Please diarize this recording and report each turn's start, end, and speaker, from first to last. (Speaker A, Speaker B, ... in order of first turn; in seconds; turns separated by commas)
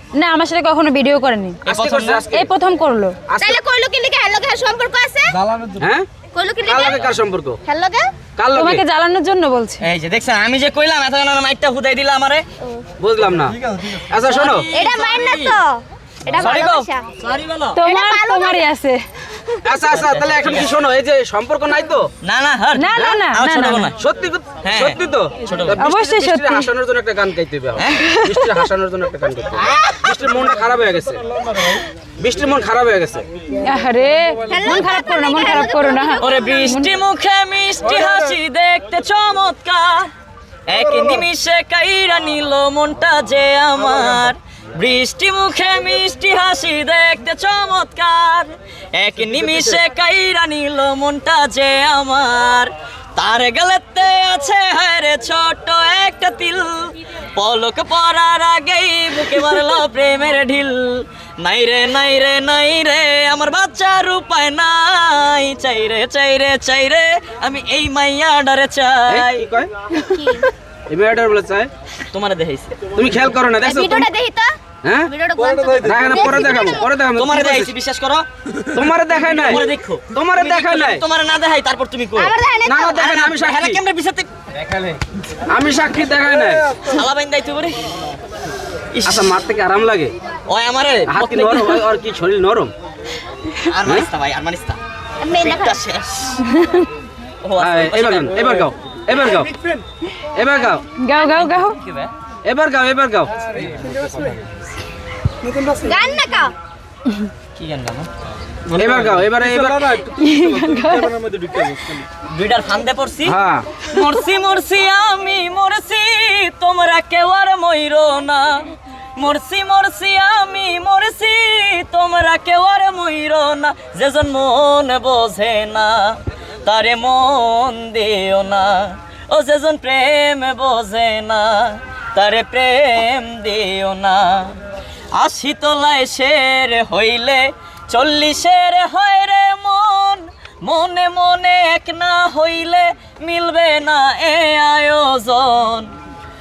Speaker A: 0.2-1.6, Speaker B: 1.6-2.3, Speaker C: 1.7-2.5, Speaker A: 2.3-3.1, Speaker C: 3.3-3.6, Speaker D: 3.4-5.4, Speaker C: 5.8-6.0, Speaker D: 6.3-7.1, Speaker C: 6.6-7.6, Speaker D: 7.6-8.1, Speaker C: 8.4-8.8, Speaker A: 8.5-9.8, Speaker B: 9.8-12.4, Speaker C: 13.0-14.7, Speaker B: 14.0-15.6, Speaker D: 14.7-17.0, Speaker B: 16.3-17.8, Speaker A: 17.7-19.0, Speaker D: 17.8-18.7, Speaker C: 19.6-22.1, Speaker B: 19.9-20.7, Speaker B: 22.2-23.9, Speaker A: 22.8-23.9, Speaker C: 23.9-31.2, Speaker B: 24.6-25.8, Speaker A: 25.8-26.7, Speaker B: 27.8-28.1, Speaker D: 29.6-30.1, Speaker C: 32.2-33.2, Speaker A: 33.6-36.9, Speaker D: 34.5-36.6, Speaker B: 36.2-40.1, Speaker B: 40.7-69.5, Speaker C: 69.1-69.7, Speaker D: 69.9-70.5, Speaker C: 70.9-71.7, Speaker B: 72.1-72.8, Speaker C: 72.9-74.1, Speaker D: 73.6-74.5, Speaker C: 74.8-75.1, Speaker D: 75.0-76.9, Speaker C: 75.8-77.7, Speaker B: 77.1-78.3, Speaker C: 78.7-81.0, Speaker B: 79.3-82.3, Speaker D: 82.2-83.0, Speaker C: 82.6-83.8, Speaker B: 82.9-84.5, Speaker C: 85.5-86.6, Speaker B: 86.8-87.8, Speaker B: 88.9-89.4, Speaker C: 89.0-90.1, Speaker B: 90.5-91.8, Speaker C: 91.0-92.7, Speaker B: 93.6-94.8, Speaker D: 95.2-95.8, Speaker B: 95.3-96.5, Speaker A: 96.4-96.8, Speaker B: 97.4-98.7, Speaker C: 97.6-99.5, Speaker C: 100.3-100.8, Speaker A: 101.0-101.8, Speaker B: 101.3-102.1, Speaker C: 102.4-103.3, Speaker D: 105.7-106.5, Speaker B: 107.5-108.1, Speaker C: 108.7-110.0, Speaker A: 110.1-111.8, Speaker B: 112.2-134.6, Speaker C: 113.2-113.7, Speaker B: 135.2-145.9